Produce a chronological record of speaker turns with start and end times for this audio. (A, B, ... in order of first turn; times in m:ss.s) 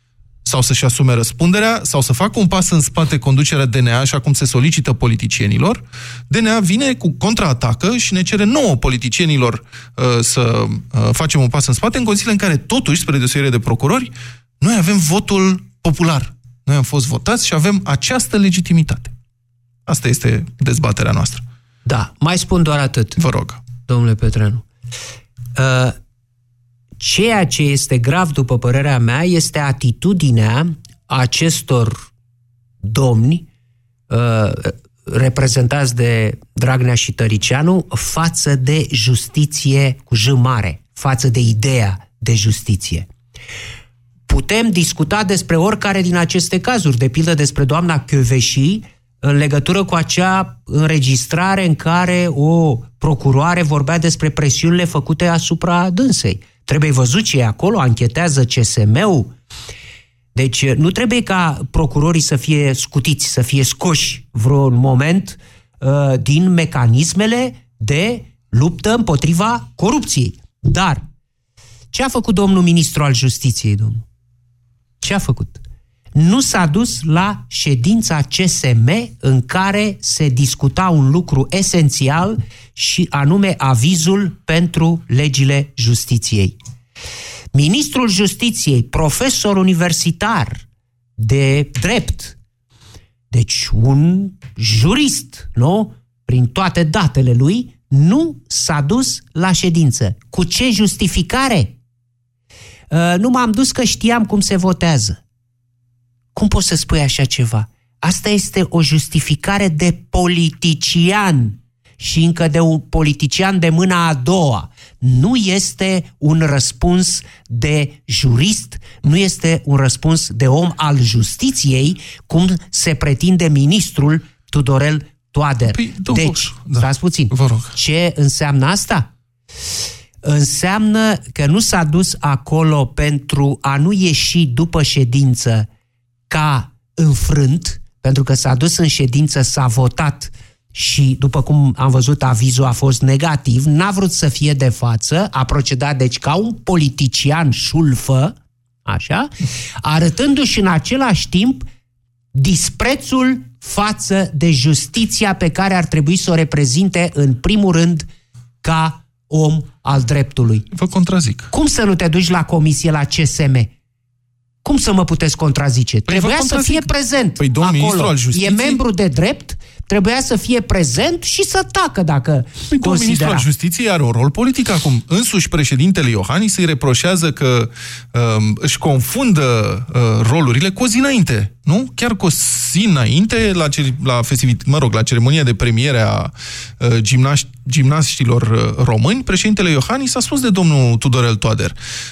0:00.4-0:19.1 A
0:19.9-0:21.4 A
0:21.8-0:23.2 B
0:23.2-0:23.6 A
0:23.9-0:24.6 B
0:25.6-0:26.0 B
0:27.0-0:32.1 B
0:32.8-0:33.4 B
0:34.1-0:43.1 B
0:44.3-0:59.3 B
1:00.3-1:11.0 B
1:11.9-1:14.0 B
1:15.0-1:15.6 B
1:16.1-1:26.6 B
1:27.5-1:30.6 B
1:31.2-1:32.4 B
1:33.3-1:41.7 B
1:42.9-1:45.2 B
1:46.3-2:09.1 B
2:05.7-2:07.7 A
2:10.2-2:15.7 B
2:16.3-2:29.3 B
2:29.8-2:31.7 B
2:32.3-2:38.1 B
2:38.6-2:40.7 B
2:40.7-2:41.5 A
2:41.5-2:43.7 B
2:44.6-2:53.4 B
2:46.1-2:48.8 A
2:52.7-3:11.8 A